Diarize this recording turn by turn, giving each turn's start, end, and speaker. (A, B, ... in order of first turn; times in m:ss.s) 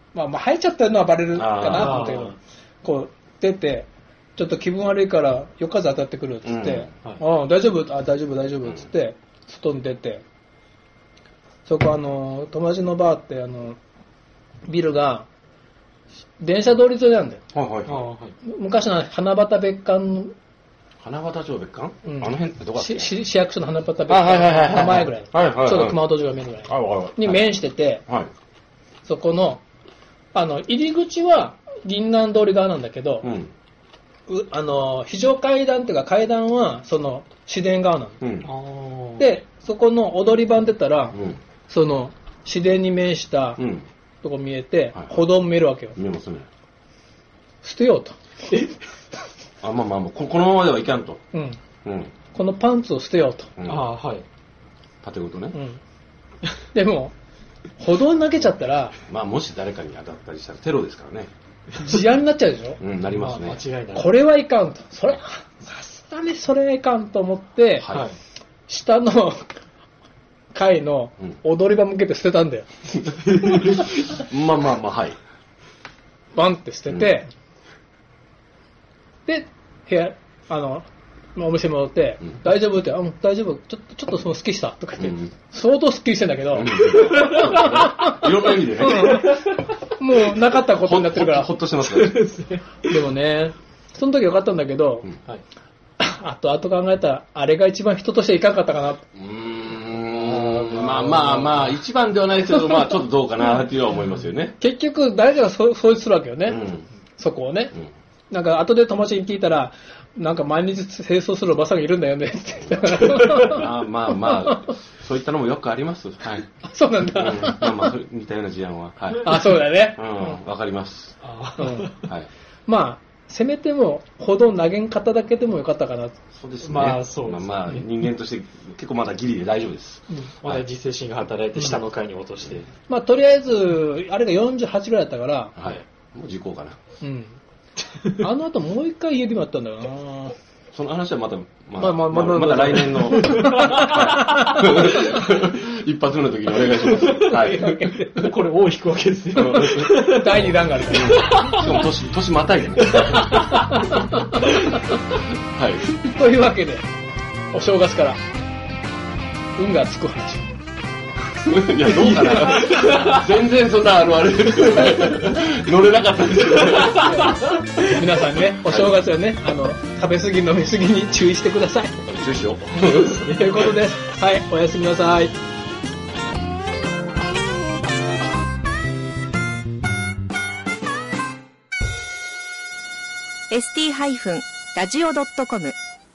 0:00.1-0:10.2 A
0:01.3-0:02.2 B
0:01.7-0:02.4 C
0:06.4-0:06.9 B
0:11.7-0:13.8 A
0:14.7-0:15.3 A
0:16.4-0:17.4 A
0:17.5-0:18.1 B
0:17.9-0:18.4 C
0:18.4-0:20.3 A
0:21.0-0:23.2 B
0:22.1-0:28.0 A
0:24.1-0:26.1 B
0:26.7-0:27.5 B
0:29.0-0:29.6 A
0:30.3-0:33.3 A
0:33.2-0:33.5 B
0:34.3-0:38.2 A
0:38.2-0:38.5 B
0:38.4-0:39.3 C
0:39.2-0:41.2 A
0:41.1-0:41.4 B
0:41.7-0:43.6 A
0:43.6-0:43.9 B
0:44.2-0:46.0 A
0:46.0-0:46.5 B
0:47.6-0:48.2 A
0:49.6-0:51.2 B
0:51.3-0:51.6 A
0:51.8-0:52.1 B
0:52.3-0:53.5 A
0:53.6-0:53.9 B
0:53.6-0:54.2 C
0:55.0-0:55.6 B
0:55.5-0:55.8 A
0:56.7-0:57.1 A
0:57.8-0:59.0 A
0:59.1-1:01.3 B
1:01.8-1:02.8 A
1:02.8-1:03.6 B
1:03.1-1:04.1 C
1:03.9-1:07.9 A
1:07.8-1:08.1 B
1:07.9-1:08.2 C
1:08.7-1:09.5 A
1:10.5-1:12.7 A
1:13.4-1:15.2 B
1:16.3-1:17.3 A
1:19.3-1:31.5 A
1:25.0-1:25.3 B
1:26.5-1:29.2 B
1:27.0-1:27.5 C
1:29.1-1:29.4 C
1:30.7-1:32.3 B
1:31.8-1:32.9 C
1:32.9-1:35.1 A
1:36.0-1:39.0 A
1:39.2-1:44.6 B
1:40.1-1:41.8 C
1:42.7-1:43.0 A
1:44.6-1:46.6 A
1:46.5-1:46.9 B
1:47.2-1:47.8 A
1:48.3-1:53.7 A
1:53.0-1:56.5 B
1:54.2-1:54.6 A
1:56.6-1:57.9 A
1:57.1-2:01.2 B
1:59.2-2:00.4 A
2:01.2-2:02.0 C
2:01.6-2:01.9 A
2:02.7-2:06.2 A
2:06.4-2:10.6 B
2:06.6-2:07.9 C
2:10.4-2:12.7 C
2:12.9-2:15.6 A
2:15.6-2:16.8 B
2:17.0-2:17.4 A
2:18.1-2:20.4 A
2:20.7-2:28.1 B
2:21.8-2:25.2 A
2:23.2-2:24.5 C
2:26.9-2:31.8 C
2:27.4-2:28.1 A
2:29.3-2:33.6 B
2:29.6-2:31.4 A
2:33.0-2:33.9 C
2:33.7-2:34.2 A
2:34.4-2:34.8 C
2:35.5-2:35.8 B
2:36.0-2:36.9 A
2:37.5-2:38.2 A
2:39.6-2:40.4 A
2:41.4-2:47.3 B
2:42.3-2:43.2 C
2:46.7-2:47.6 C
2:47.8-2:52.0 A
2:48.7-2:49.0 B
2:52.0-2:53.6 B
2:53.0-2:53.7 C
2:53.2-2:55.3 A
3:03.5-3:05.8 D